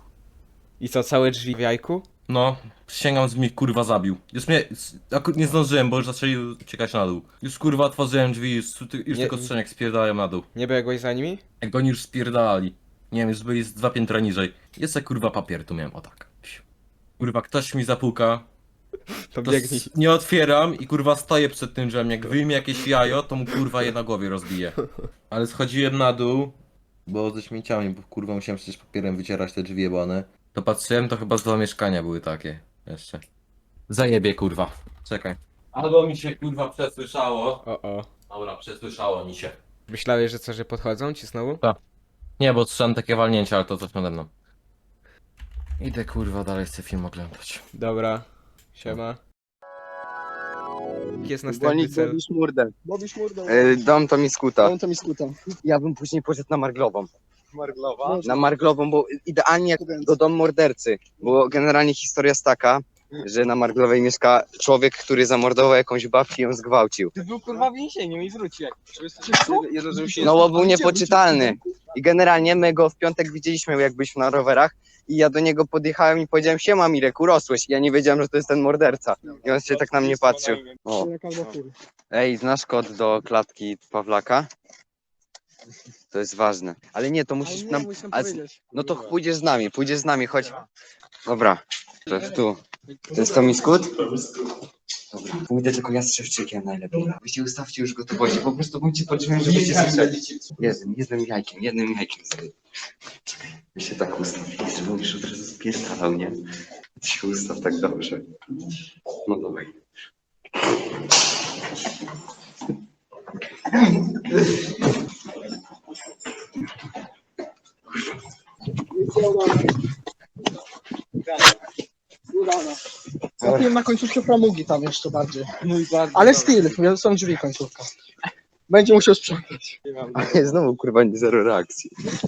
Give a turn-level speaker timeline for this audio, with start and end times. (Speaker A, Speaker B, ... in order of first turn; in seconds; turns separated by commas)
Speaker A: 0.8-2.1, Speaker B: 2.3-10.5, Speaker A: 9.1-9.5, Speaker A: 10.5-11.4, Speaker B: 11.6-16.6, Speaker B: 17.2-18.4, Speaker A: 19.3-19.9, Speaker B: 19.4-26.6, Speaker A: 22.3-23.6, Speaker B: 27.1-33.2, Speaker B: 33.9-37.6, Speaker A: 37.6-38.1, Speaker B: 38.3-39.6, Speaker A: 39.9-41.6, Speaker B: 42.4-44.3, Speaker B: 45.8-47.6, Speaker A: 47.7-49.2, Speaker A: 51.2-52.2, Speaker C: 51.5-52.7, Speaker D: 52.8-53.8, Speaker C: 53.5-54.8, Speaker D: 54.6-55.4, Speaker C: 55.6-57.1, Speaker E: 57.5-58.2, Speaker D: 58.0-58.5, Speaker C: 58.2-67.1, Speaker D: 59.8-60.2, Speaker E: 67.2-70.3, Speaker D: 69.2-71.5, Speaker C: 70.2-81.1, Speaker D: 80.9-81.7, Speaker C: 82.1-84.5, Speaker C: 86.1-90.6, Speaker D: 87.4-88.9, Speaker C: 91.2-92.6, Speaker C: 93.1-94.1, Speaker C: 95.1-102.5, Speaker C: 103.7-106.4, Speaker C: 107.0-108.2, Speaker C: 109.2-109.7, Speaker D: 118.9-119.7, Speaker D: 122.3-122.8, Speaker C: 123.4-123.7, Speaker D: 123.4-125.5, Speaker E: 125.6-126.9, Speaker D: 126.1-127.9, Speaker D: 128.7-129.8, Speaker E: 129.9-130.5, Speaker C: 130.1-131.9